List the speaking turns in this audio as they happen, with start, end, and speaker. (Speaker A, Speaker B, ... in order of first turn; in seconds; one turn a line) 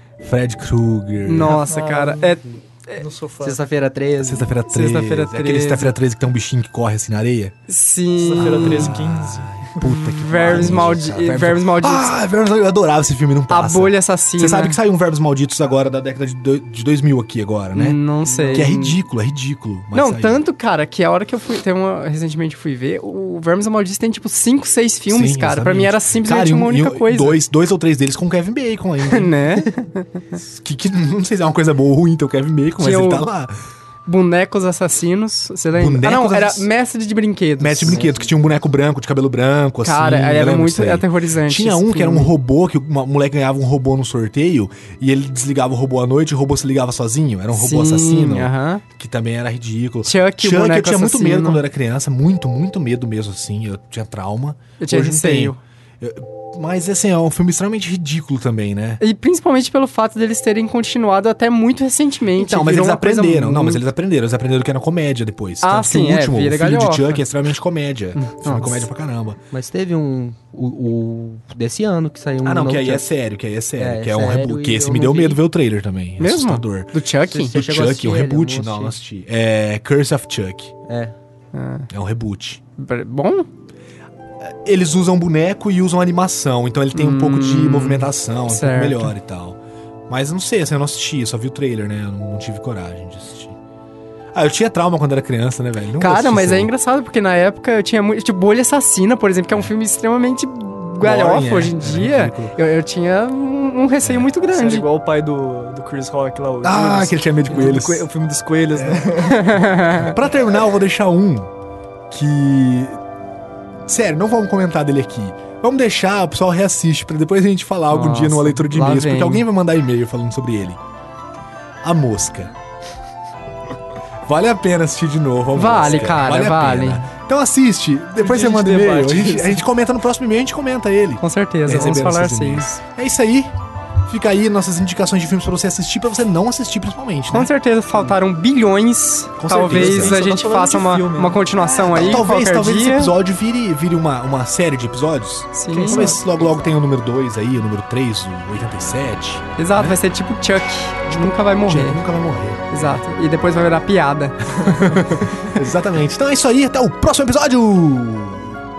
Speaker A: 0.2-1.6
Speaker B: 1.2-3.0
Speaker C: 1.4-2.4
Speaker C: 3.0-3.6
Speaker D: 3.4-4.5
Speaker A: 4.2-7.5
Speaker B: 4.7-6.0
Speaker B: 7.7-8.9
Speaker C: 8.2-9.9
Speaker A: 8.4-18.0
Speaker B: 9.9-12.1
Speaker B: 13.5-14.8
Speaker B: 17.7-19.0
Speaker C: 18.2-18.7
Speaker A: 18.5-20.4
Speaker B: 19.9-27.4
Speaker A: 25.1-29.7
Speaker B: 29.1-30.2
Speaker A: 30.4-33.5
Speaker B: 32.8-33.3
Speaker B: 34.0-38.0
Speaker A: 35.7-36.7
Speaker A: 37.6-59.0
Speaker D: 37.9-38.4
Speaker B: 39.8-42.3
Speaker B: 47.5-48.8
Speaker B: 50.0-51.6
Speaker B: 54.8-55.6
Speaker B: 59.0-63.8
Speaker A: 62.4-69.4
Speaker B: 65.6-67.2
Speaker B: 68.2-68.9
Speaker D: 69.5-73.1
Speaker A: 72.4-80.7
Speaker D: 73.8-75.4
Speaker B: 76.2-77.6
Speaker D: 77.3-78.9
Speaker D: 80.9-81.2
Speaker B: 81.5-81.9
Speaker A: 81.9-82.6
Speaker B: 82.8-83.5
Speaker A: 84.4-93.5
Speaker B: 86.9-89.1
Speaker A: 94.3-96.7
Speaker B: 96.0-104.8
Speaker A: 101.0-102.5
Speaker A: 104.0-104.3
Speaker C: 104.5-109.6
Speaker A: 106.6-108.0
Speaker A: 108.7-109.1
Speaker B: 109.3-110.1
Speaker A: 109.9-111.5
Speaker A: 112.1-113.0
Speaker A: 113.9-120.8
Speaker B: 117.9-119.5
Speaker A: 121.8-122.5
Speaker A: 124.2-133.5
Speaker B: 125.5-127.1
Speaker C: 128.2-129.6
Speaker B: 131.2-132.8
Speaker A: 134.1-137.5
Speaker B: 137.3-143.1
Speaker A: 139.4-140.2
Speaker C: 139.5-141.9
Speaker A: 141.8-150.0
Speaker B: 145.5-146.2
Speaker C: 145.7-146.4
Speaker B: 149.6-152.0
Speaker A: 151.1-153.0
Speaker B: 152.7-155.3
Speaker A: 154.6-158.6